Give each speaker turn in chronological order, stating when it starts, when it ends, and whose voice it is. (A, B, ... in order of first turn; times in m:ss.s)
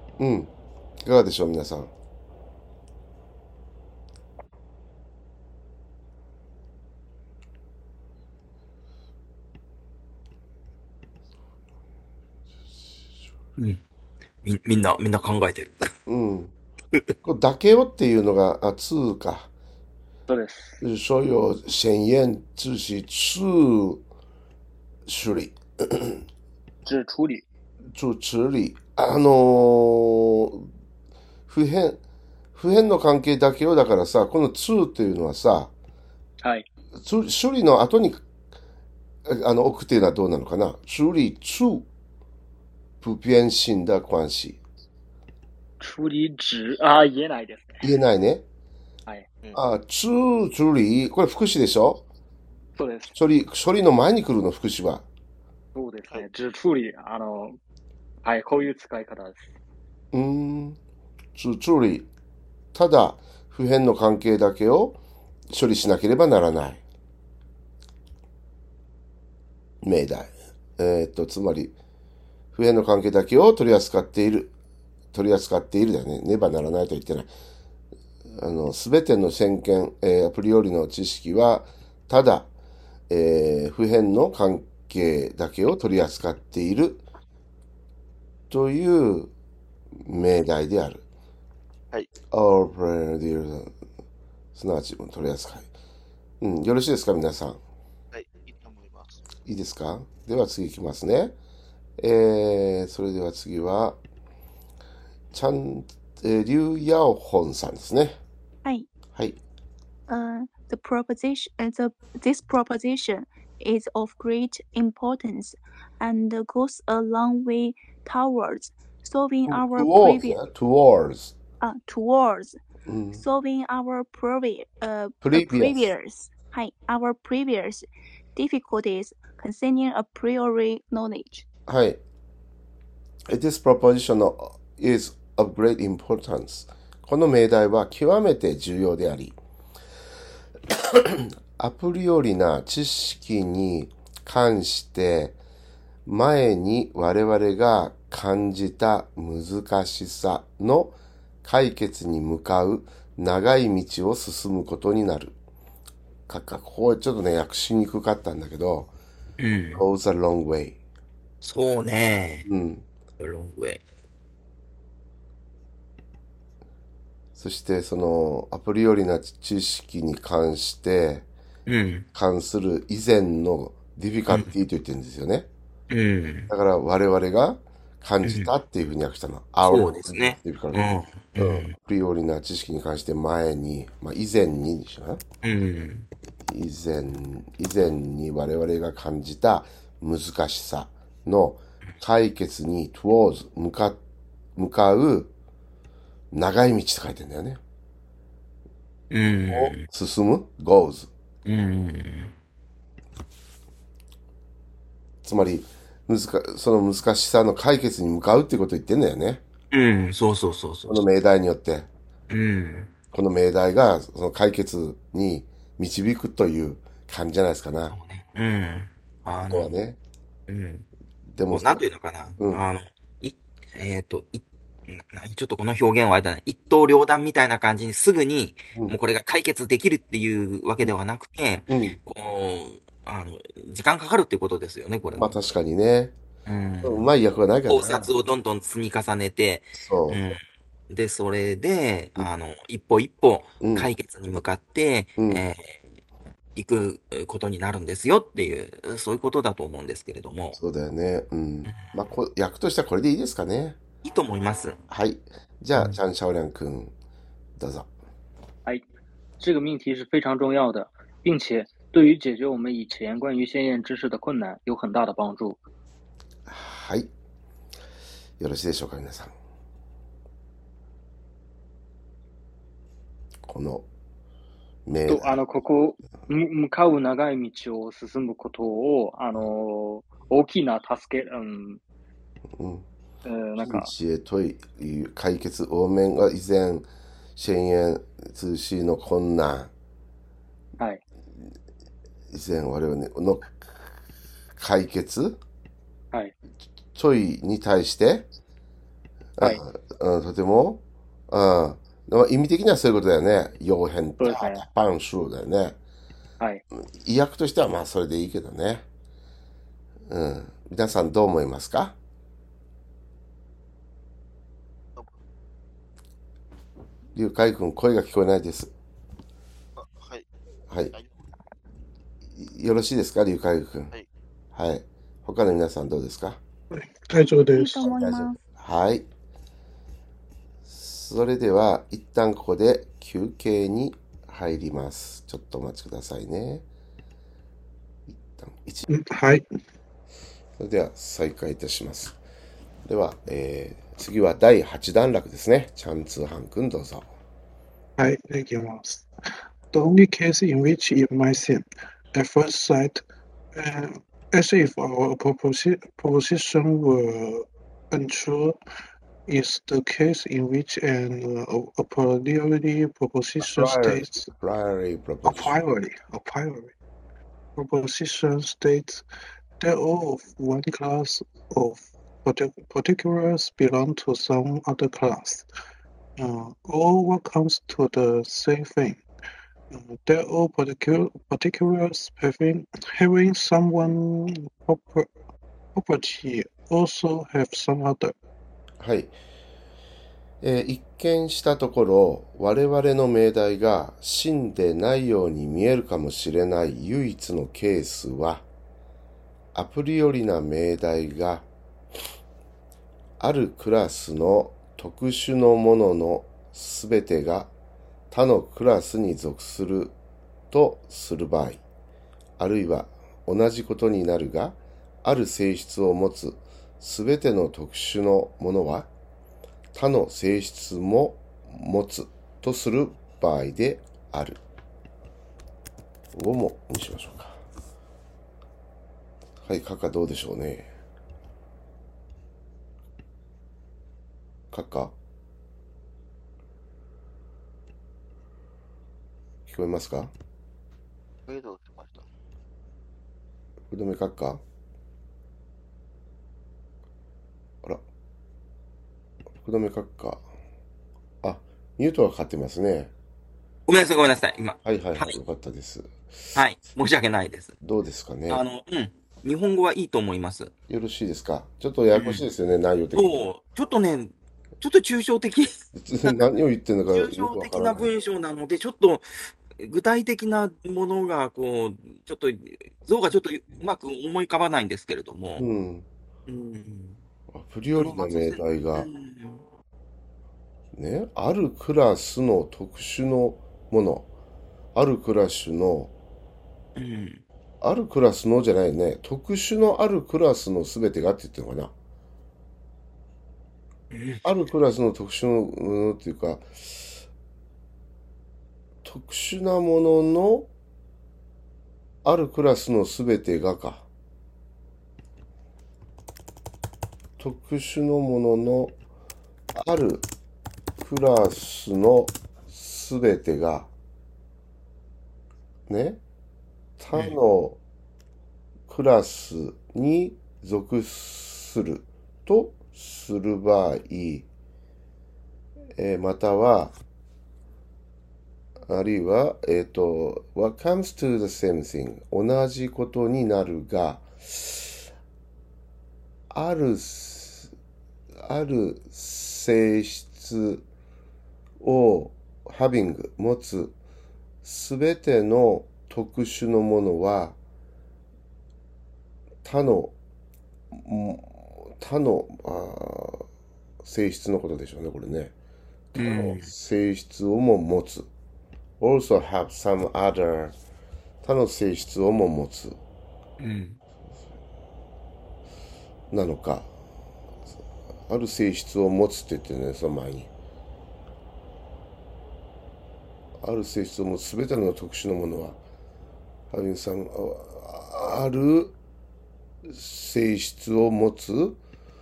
0:00.2-0:00.5 A
0:01.0-0:01.9 A
0:14.4-0:15.9 B
0:16.1-0:16.5 A
0:17.2-0:19.5 A
0:20.3-0:20.8 C
0:20.8-0:24.0 A
0:25.1-0:26.2 A
0:26.8-0:27.4 C
0:27.9-0:30.7 A
0:31.5-0:32.0 A
0:32.6-0:35.7 A
0:36.4-0:36.7 C
0:37.0-0:38.2 A
0:39.3-0:41.9 A
0:43.0-0:44.6 A
0:45.8-0:47.8 C
0:47.8-0:48.4 A
0:49.5-0:52.0 A
0:52.8-0:53.2 C
0:53.2-0:55.1 A
0:55.8-0:57.6 C
0:58.2-0:59.5 C
1:00.1-1:00.8 A
1:01.4-1:02.1 A
1:02.7-1:05.0 A
1:05.5-1:06.8 A
1:09.8-1:11.8 A
1:12.5-1:14.5 A
1:15.1-1:17.3 A
1:18.4-1:22.5 A
1:23.1-1:27.0 A
1:28.5-1:29.3 A
1:30.0-1:31.0 A
1:32.3-1:33.7 A
1:34.6-1:35.7 A
1:36.4-1:37.6 A
1:38.1-1:39.2 D
1:39.4-1:41.4 A
1:42.0-1:44.0 A
1:45.3-1:48.2 A
1:50.1-2:00.4 E
1:59.5-2:01.3 A
2:01.6-2:02.6 E
2:02.9-2:03.2 A
2:03.1-2:11.4 E
2:05.2-2:05.9 A
2:11.7-2:12.0 A
2:13.3-2:19.4 A
2:20.7-2:25.4 A
2:26.1-2:35.4 A
2:36.3-2:38.9 A
2:39.4-2:39.8 B
2:39.7-2:40.8 A
2:41.4-2:42.5 B
2:42.5-2:42.8 A
2:43.2-2:43.8 B
2:47.4-2:51.3 A
2:51.7-2:52.1 B
2:52.1-2:55.5 A
2:55.9-2:56.5 B
2:56.5-3:05.2 A
2:58.2-2:58.5 B
2:59.6-3:01.7 B
3:05.4-3:06.1 B
3:06.5-3:14.0 A
3:14.6-3:15.3 A
3:16.3-3:17.6 A
3:19.1-3:19.9 B
3:19.5-3:21.1 A
3:21.4-3:22.3 B
3:25.2-3:29.4 A
3:29.7-3:31.0 B
3:30.9-3:31.9 A
3:32.3-3:32.9 B
3:33.1-3:38.0 A
3:37.9-3:39.7 B
3:39.5-3:40.0 A
3:40.5-3:40.9 B
3:41.3-3:41.8 A
3:41.5-3:55.4 B
3:42.4-3:42.6 A
3:51.7-3:52.0 A
3:55.2-3:56.2 A
3:56.5-3:57.1 B
3:56.8-3:58.1 A
3:57.7-4:05.8 B
3:59.8-4:00.2 A
4:03.6-4:03.9 A
4:05.2-4:05.4 A
4:06.6-4:10.6 B
4:10.6-4:13.8 A
4:14.0-4:14.8 B
4:14.9-4:16.9 A
4:17.6-4:17.9 A
4:19.4-4:25.6 C
4:26.5-4:27.1 A
4:28.4-4:29.3 A
4:33.4-4:33.9 A
4:34.9-4:35.4 A
4:35.1-4:41.8 C
4:42.5-4:42.8 A
4:43.2-4:43.9 C
4:43.6-4:49.7 A
4:52.3-4:53.6 A
4:54.6-4:55.4 A
4:56.9-4:58.3 A
4:59.4-5:05.8 A
5:04.2-5:04.6 C
5:06.9-5:08.8 A
5:10.1-5:12.0 A
5:17.2-5:18.7 A
5:19.8-5:20.3 D
5:20.7-5:21.0 A
5:22.4-5:23.9 A
5:24.5-5:26.4 A
5:26.7-5:27.9 F
5:27.5-5:28.4 E
5:27.8-5:29.1 A
5:30.7-5:36.7 A
5:38.1-5:38.9 A
5:38.9-5:39.5 F
5:40.6-5:42.2 A
5:42.8-5:47.1 A
5:48.0-5:49.1 F
5:49.7-5:53.0 F
5:53.6-5:58.6 F
5:59.3-6:04.3 F
6:03.4-6:05.6 A
6:05.2-6:06.7 F
6:07.6-6:09.0 F
6:09.6-6:15.5 F
6:16.2-6:19.0 F
6:19.7-6:25.1 F
6:25.8-6:28.2 F
6:28.8-6:29.1 A
6:30.4-6:38.4 A
6:39.5-6:41.5 A
6:43.2-6:47.5 A
6:48.1-6:50.0 A
6:50.5-6:51.6 A
6:52.4-6:58.9 A
6:59.7-7:04.4 A
7:06.1-7:07.4 A
7:09.4-7:10.7 A
7:14.5-7:15.0 A
7:19.5-7:20.1 A
7:21.3-7:22.1 D
7:23.7-7:24.4 A
7:29.4-7:30.2 A
7:31.2-7:32.9 A
7:33.7-7:35.2 B
7:34.6-7:36.0 A
7:36.4-7:37.6 B
7:37.6-7:38.4 A
7:38.3-7:40.5 B
7:40.7-7:43.3 A
7:41.9-7:42.3 B
7:42.9-7:46.2 B
7:45.8-7:47.9 A
7:46.9-7:49.0 B
7:49.6-7:55.5 B
7:55.4-7:55.9 A
7:56.3-7:57.0 B
7:57.3-7:58.9 A
7:57.8-7:59.4 B
8:00.7-8:04.1 A
8:04.8-8:05.9 A
8:06.8-8:07.2 B
8:07.6-8:11.7 A
8:13.9-8:14.2 B
8:14.2-8:16.9 A
8:18.8-8:20.5 A
8:22.0-8:23.9 A
8:27.2-8:28.8 A
8:29.5-8:30.1 A
8:30.8-8:33.7 A
8:35.7-8:36.0 A
8:36.8-8:37.6 A
8:38.7-8:44.3 A
8:45.8-8:46.8 A
8:48.7-8:54.8 A
8:56.3-8:57.5 A
8:58.2-9:00.6 A
9:01.6-9:03.8 A
9:04.4-9:07.4 A
9:09.4-9:09.9 A
9:10.7-9:13.2 A
9:13.8-9:15.3 A
9:15.9-9:18.1 A
9:16.0-9:16.5 B
9:18.8-9:20.6 A
9:21.2-9:22.8 A
9:23.4-9:23.8 B
9:26.1-9:26.7 A
9:28.1-9:30.3 A
9:33.4-9:35.6 A
9:36.5-9:38.8 A
9:39.6-9:41.6 A